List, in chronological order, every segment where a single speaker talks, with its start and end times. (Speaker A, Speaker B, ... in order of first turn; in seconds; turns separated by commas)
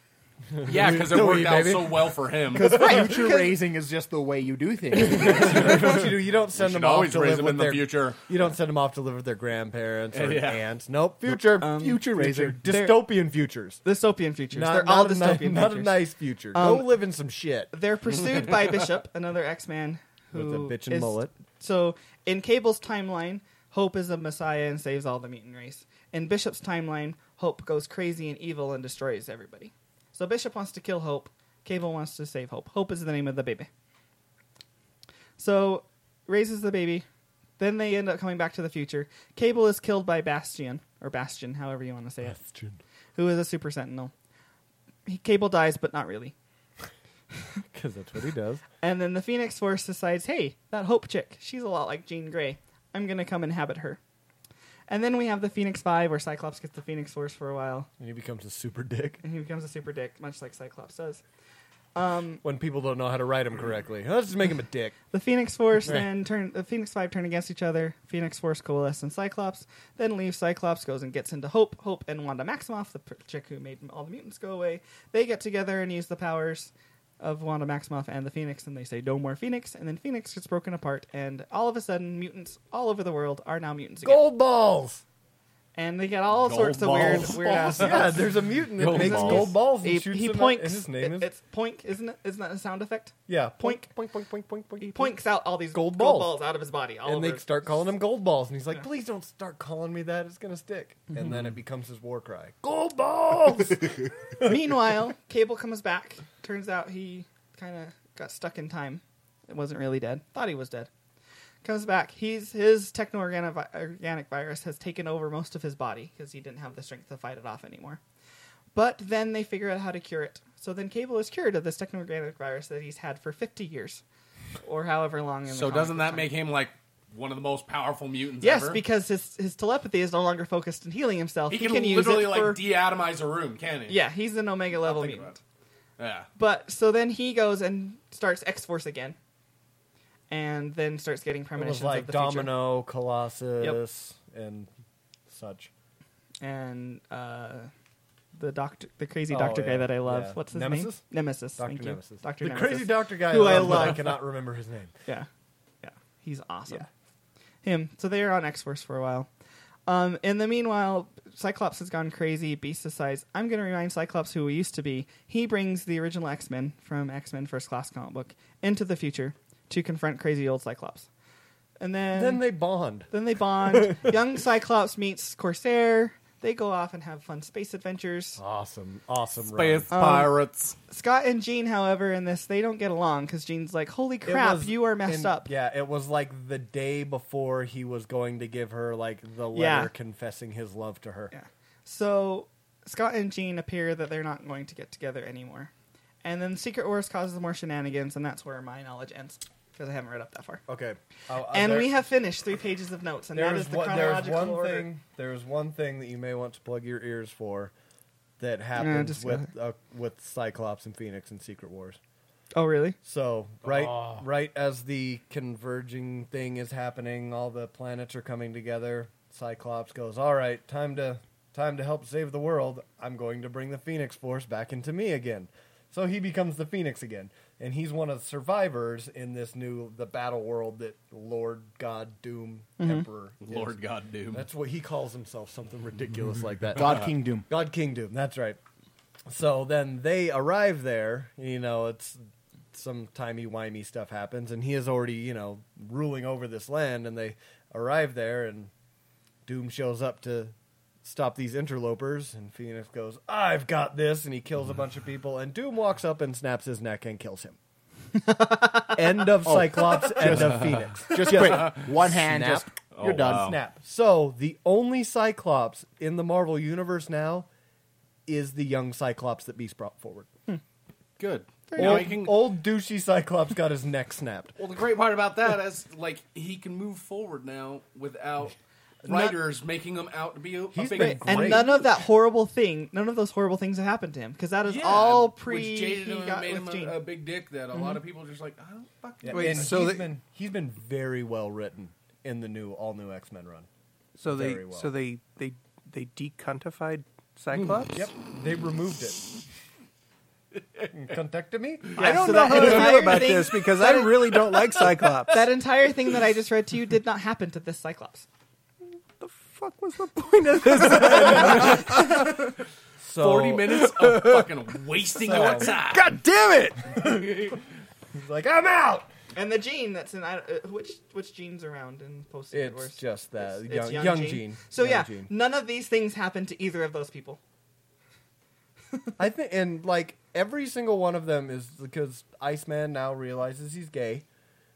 Speaker A: 0.5-3.5, Speaker B: 0.7-2.9, Speaker C: 2.5-6.0, Speaker A: 5.0-13.8, Speaker B: 5.6-5.9, Speaker B: 6.5-8.2, Speaker B: 10.1-10.6, Speaker D: 11.6-12.1, Speaker C: 11.8-12.7, Speaker D: 12.7-13.1, Speaker D: 13.8-16.0, Speaker A: 14.5-17.7, Speaker D: 16.5-17.0, Speaker D: 17.7-33.7, Speaker A: 20.3-21.3, Speaker D: 35.4-37.0, Speaker D: 37.6-42.4, Speaker A: 42.2-42.8, Speaker D: 43.2-44.1, Speaker D: 45.1-46.3, Speaker A: 47.7-48.6, Speaker D: 48.8-54.0, Speaker D: 54.9-57.9, Speaker A: 58.0-59.2, Speaker D: 59.2-61.2, Speaker D: 62.0-62.4, Speaker A: 62.4-65.0, Speaker D: 65.1-84.3, Speaker A: 84.0-85.0, Speaker D: 85.8-88.3, Speaker B: 86.5-88.2, Speaker A: 86.7-91.3, Speaker B: 88.8-89.6, Speaker D: 88.8-93.8, Speaker A: 93.3-96.4, Speaker D: 94.8-97.5, Speaker A: 97.0-104.5, Speaker D: 104.4-110.9, Speaker D: 111.6-118.0, Speaker D: 118.7-124.0, Speaker D: 124.6-126.3, Speaker B: 125.5-128.8, Speaker D: 128.4-132.6, Speaker B: 131.5-134.0, Speaker D: 133.9-135.4, Speaker B: 134.8-135.4, Speaker B: 136.0-136.3, Speaker D: 136.4-139.2, Speaker D: 140.3-142.6, Speaker A: 141.6-144.7, Speaker A: 145.3-145.7, Speaker D: 146.4-147.7, Speaker D: 148.4-154.2, Speaker A: 149.3-154.9, Speaker D: 155.8-156.9, Speaker D: 157.6-159.3, Speaker D: 159.9-171.1, Speaker D: 171.8-172.5, Speaker A: 172.1-173.1, Speaker D: 173.1-178.4, Speaker A: 173.7-174.1, Speaker A: 178.4-179.9, Speaker B: 179.4-180.8, Speaker D: 179.9-185.5, Speaker A: 184.3-191.3, Speaker D: 189.5-189.9, Speaker D: 191.3-195.7, Speaker D: 196.2-200.6, Speaker A: 200.7-201.9, Speaker D: 201.4-204.9, Speaker A: 203.3-207.7, Speaker A: 208.4-212.0, Speaker D: 208.8-209.5, Speaker D: 212.5-213.0, Speaker A: 213.0-233.8, Speaker D: 232.8-233.1, Speaker B: 233.4-234.5, Speaker A: 234.3-238.6, Speaker C: 236.8-237.5, Speaker A: 239.3-248.7, Speaker A: 249.5-257.6, Speaker A: 258.8-267.5, Speaker C: 259.4-263.6, Speaker B: 260.3-261.9, Speaker B: 262.9-263.6, Speaker A: 268.3-270.3, Speaker B: 271.2-272.5, Speaker D: 271.7-272.2, Speaker A: 271.8-274.5, Speaker B: 274.6-281.7, Speaker A: 279.0-279.4, Speaker A: 280.7-281.8, Speaker D: 280.9-287.0, Speaker B: 284.6-289.8, Speaker A: 289.2-293.7, Speaker E: 289.3-290.2, Speaker E: 294.2-298.1, Speaker A: 294.3-294.9, Speaker A: 297.9-299.3, Speaker A: 300.9-303.4, Speaker E: 301.9-305.4, Speaker D: 302.0-304.7, Speaker D: 305.3-308.3, Speaker E: 309.2-312.4, Speaker A: 311.0-311.8, Speaker B: 311.4-311.8, Speaker D: 312.0-312.4, Speaker A: 313.0-313.7, Speaker B: 313.2-316.1, Speaker E: 313.7-314.5, Speaker A: 315.2-315.7, Speaker E: 315.3-317.0, Speaker A: 317.0-317.6, Speaker A: 318.1-319.1, Speaker D: 319.3-327.4, Speaker A: 322.5-325.3, Speaker A: 329.2-334.3